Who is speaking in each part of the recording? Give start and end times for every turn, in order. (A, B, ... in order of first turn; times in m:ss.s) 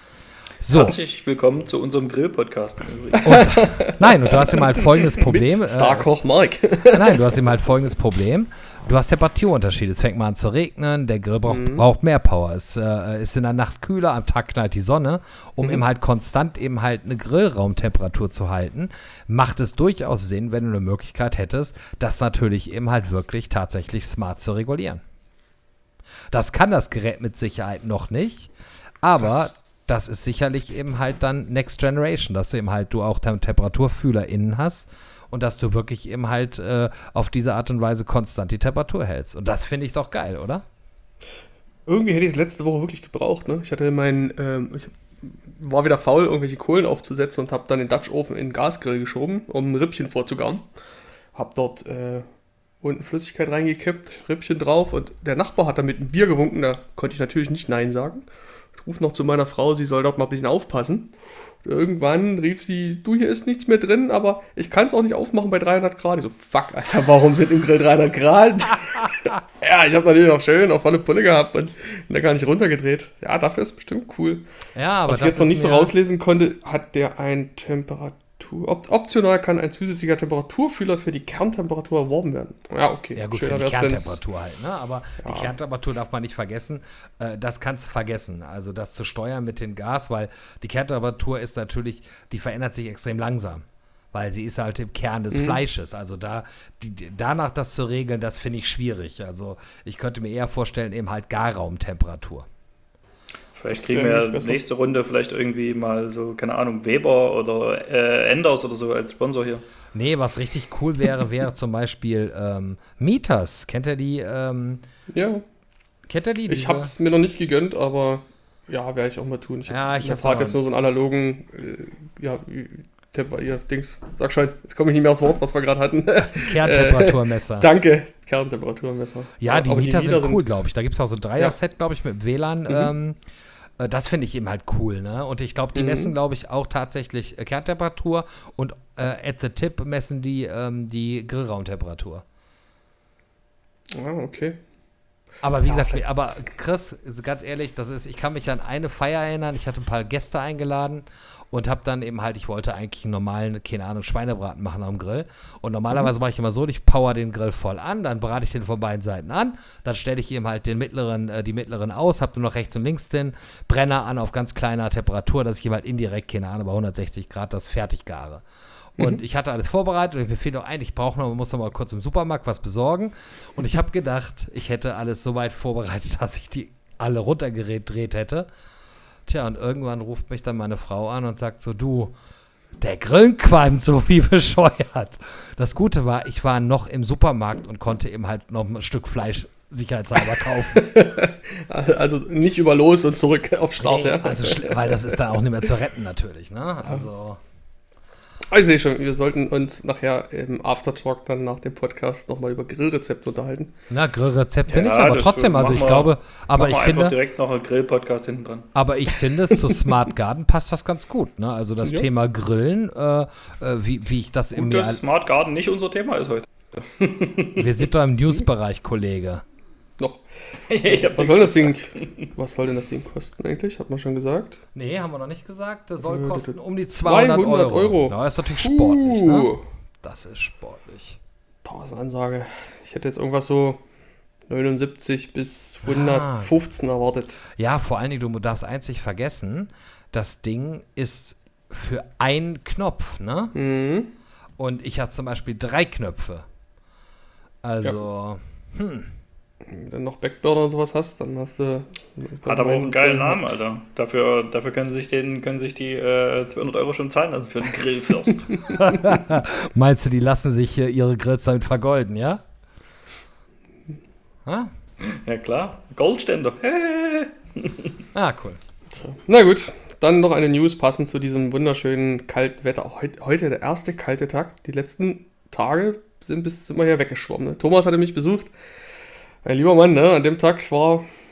0:00.6-0:01.0 A
0:00.7-0:03.5 B
0:03.2-0:06.1 A
0:03.2-0:07.4 C
0:06.9-0:25.0 A
0:11.5-0:11.8 C
0:26.3-0:28.5 A
0:29.0-0:40.6 A
0:29.2-0:29.5 C
0:41.9-0:50.7 C
0:51.4-0:52.3 C
0:52.8-1:01.1 C
1:01.6-1:14.4 C
1:14.8-1:16.0 A
1:15.1-1:24.2 C
1:23.2-1:42.5 A
1:25.2-1:25.5 C
1:35.3-1:35.6 C
1:43.6-1:49.6 B
1:43.7-1:44.6 C
1:49.9-1:54.8 A
1:55.1-1:55.4 C
1:56.1-1:56.9 A
1:56.5-2:10.4 C
1:59.7-2:00.6 A
2:06.2-2:07.7 A
2:09.4-2:13.2 A
2:13.8-2:22.2 A
2:15.8-2:16.1 C
2:23.9-2:24.6 C
2:25.4-2:48.4 A
2:25.7-2:26.0 C
2:49.0-2:58.5 A
2:59.3-3:02.1 A
3:02.8-3:11.0 A
3:10.7-3:15.2 C
3:13.8-3:17.4 A
3:18.5-3:23.7 C
3:23.9-3:27.2 A
3:24.7-3:28.7 B
3:28.8-3:35.0 A
3:34.6-3:37.6 B
3:37.6-3:39.4 A
3:40.0-3:40.2 C
3:40.7-3:42.3 B
3:40.8-3:44.6 C
3:44.8-3:51.2 A
3:46.0-3:49.6 C
3:51.6-3:53.8 C
3:54.5-3:57.4 C
3:55.8-3:56.5 A
3:57.5-4:03.6 A
4:03.6-4:04.1 C
4:04.6-4:06.5 A
4:07.6-4:09.1 A
4:09.6-4:13.4 C
4:12.4-4:18.6 B
4:18.7-4:22.4 A
4:24.4-4:24.7 A
4:25.0-4:27.9 B
4:28.1-4:28.6 A
4:29.0-4:38.5 C
4:39.4-4:41.1 C